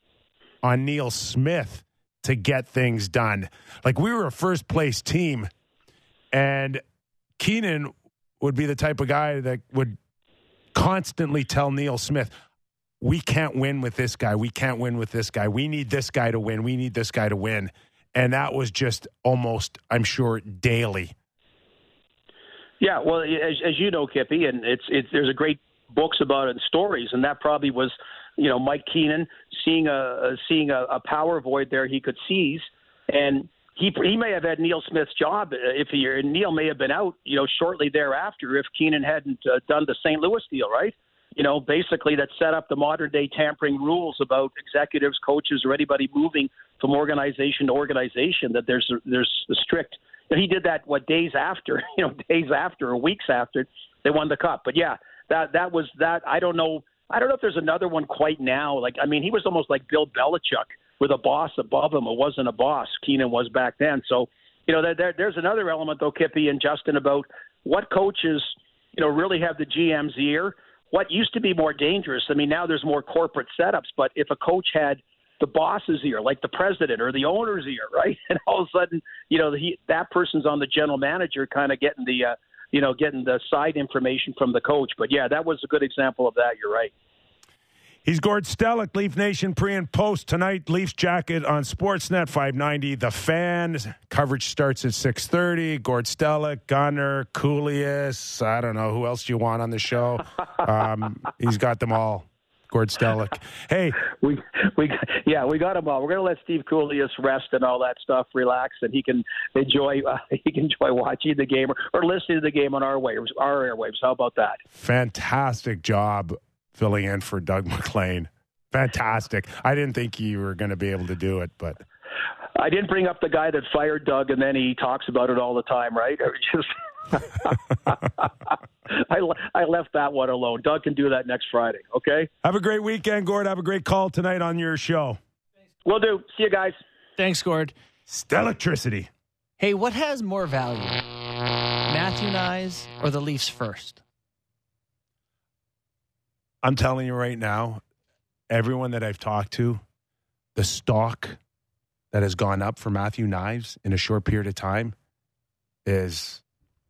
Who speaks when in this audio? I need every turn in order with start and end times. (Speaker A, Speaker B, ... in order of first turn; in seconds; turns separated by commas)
Speaker A: 0.6-5.5, Speaker A: 6.3-6.8, Speaker A: 7.4-9.9, Speaker A: 10.7-12.3, Speaker A: 13.0-21.1, Speaker B: 22.8-86.9, Speaker A: 88.0-104.0, Speaker B: 104.2-114.6, Speaker A: 114.7-121.8, Speaker B: 122.6-127.9, Speaker B: 128.9-132.3, Speaker A: 132.4-135.2, Speaker B: 135.8-136.8, Speaker C: 137.2-137.7, Speaker A: 138.1-139.1, Speaker C: 139.6-141.0, Speaker C: 141.9-144.0, Speaker A: 146.6-147.8, Speaker A: 148.5-149.8, Speaker A: 150.6-151.4, Speaker A: 152.1-154.9, Speaker A: 155.8-156.4